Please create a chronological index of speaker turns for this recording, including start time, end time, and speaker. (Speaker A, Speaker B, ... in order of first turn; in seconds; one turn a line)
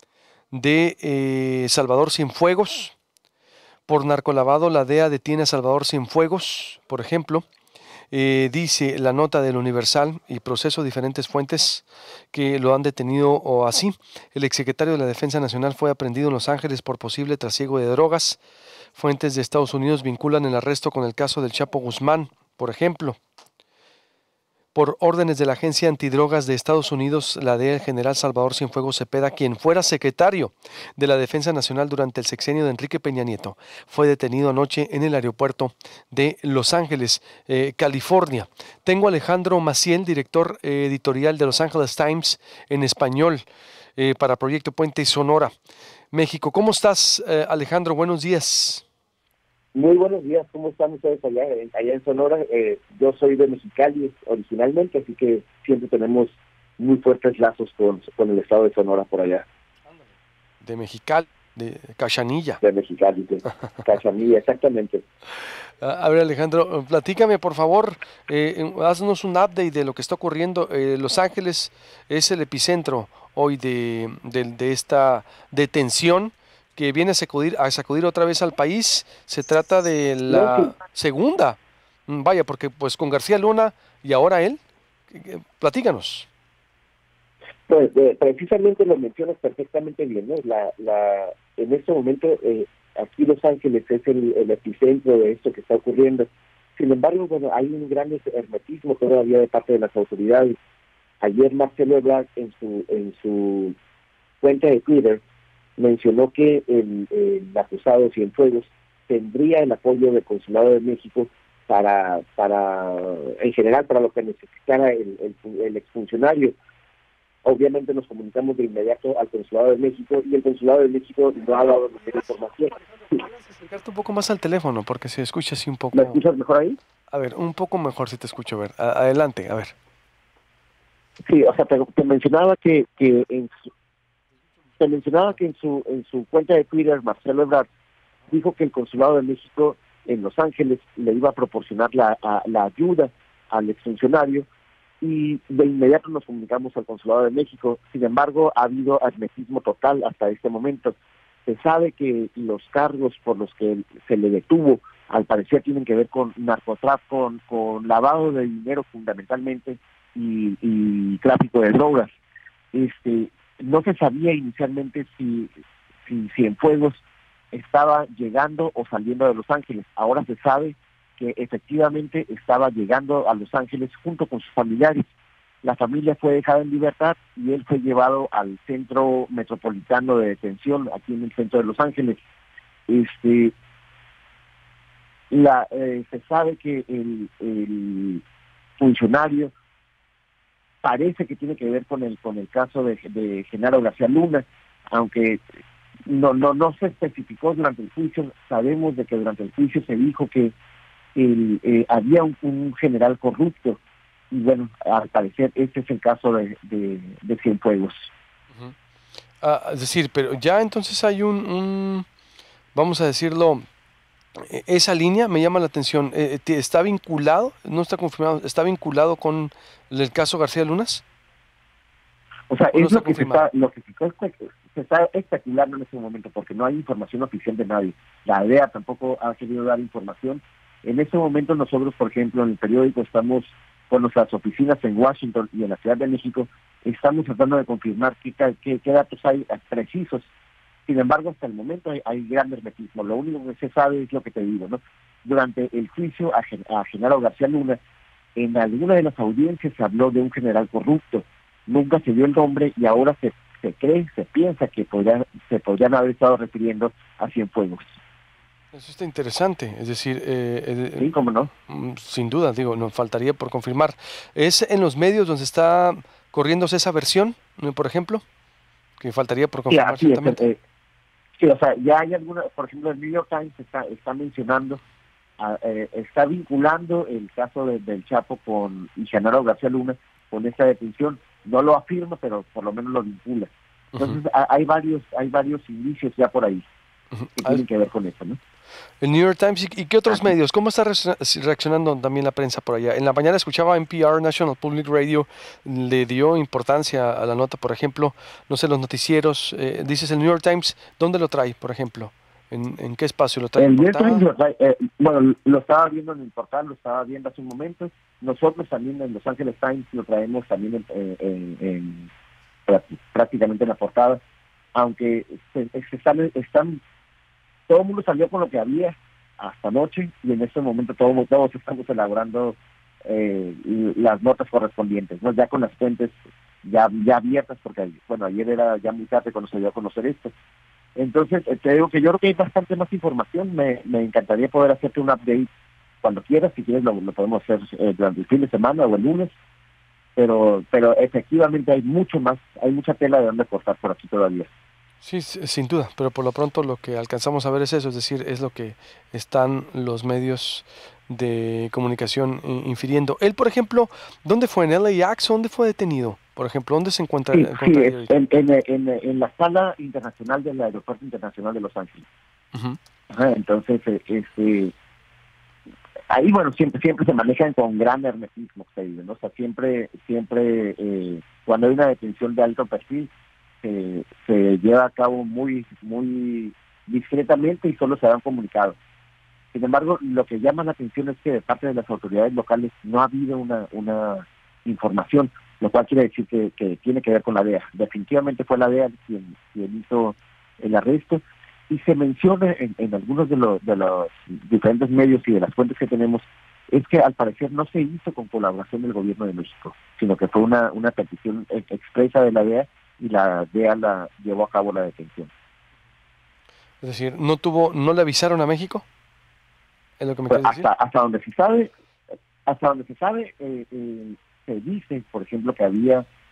Speaker A: 0.5-3.0
Speaker A: 3.9-7.4
Speaker A: 8.1-18.4
Speaker A: 19.0-23.2
Speaker A: 24.7-43.4
Speaker A: 44.0-45.5
Speaker A: 46.1-48.9
Speaker B: 49.7-59.5
Speaker A: 60.6-62.6
Speaker B: 62.6-65.0
Speaker A: 65.8-86.3
Speaker B: 80.3-80.7
Speaker B: 87.7-100.5
Speaker B: 101.2-103.8
Speaker B: 104.4-105.2
Speaker B: 105.8-116.5
Speaker B: 117.4-122.8
Speaker A: 123.2-126.2
Speaker B: 125.9-126.8
Speaker A: 127.1-129.7
Speaker B: 131.2-133.5
Speaker B: 134.8-137.7
Speaker B: 138.3-144.5
Speaker B: 145.0-150.9
Speaker B: 151.4-162.1
Speaker B: 162.7-165.5
Speaker B: 166.0-175.0
Speaker B: 175.6-182.2
Speaker B: 182.9-183.5
Speaker B: 185.3-188.2
Speaker B: 188.8-189.5
Speaker B: 190.8-195.4
Speaker B: 196.1-200.5
Speaker B: 201.1-203.8
Speaker B: 204.3-208.1
Speaker A: 209.4-212.1
Speaker A: 212.7-213.7
Speaker A: 214.4-221.0
Speaker B: 222.5-240.3
Speaker A: 222.7-223.4
Speaker B: 240.9-247.8
Speaker B: 248.4-257.9
Speaker A: 258.7-261.1
Speaker B: 261.0-261.5
Speaker A: 261.6-268.2
Speaker A: 269.0-270.5
Speaker B: 269.7-270.6
Speaker B: 271.4-274.8
Speaker B: 275.4-286.6
Speaker A: 287.1-287.6
Speaker B: 287.4-288.4
Speaker A: 289.0-304.2
Speaker B: 303.6-312.1
Speaker B: 312.7-314.2
Speaker B: 314.7-316.8
Speaker B: 317.7-330.3
Speaker B: 330.9-335.5
Speaker B: 336.0-339.3
Speaker B: 340.1-344.5
Speaker A: 345.0-358.2
Speaker B: 357.3-362.1
Speaker B: 363.1-364.7
Speaker B: 366.1-373.1
Speaker B: 373.6-378.8
Speaker B: 379.5-405.3
Speaker A: 406.8-408.8
Speaker A: 410.0-410.6
Speaker B: 410.3-411.7
Speaker B: 412.4-416.1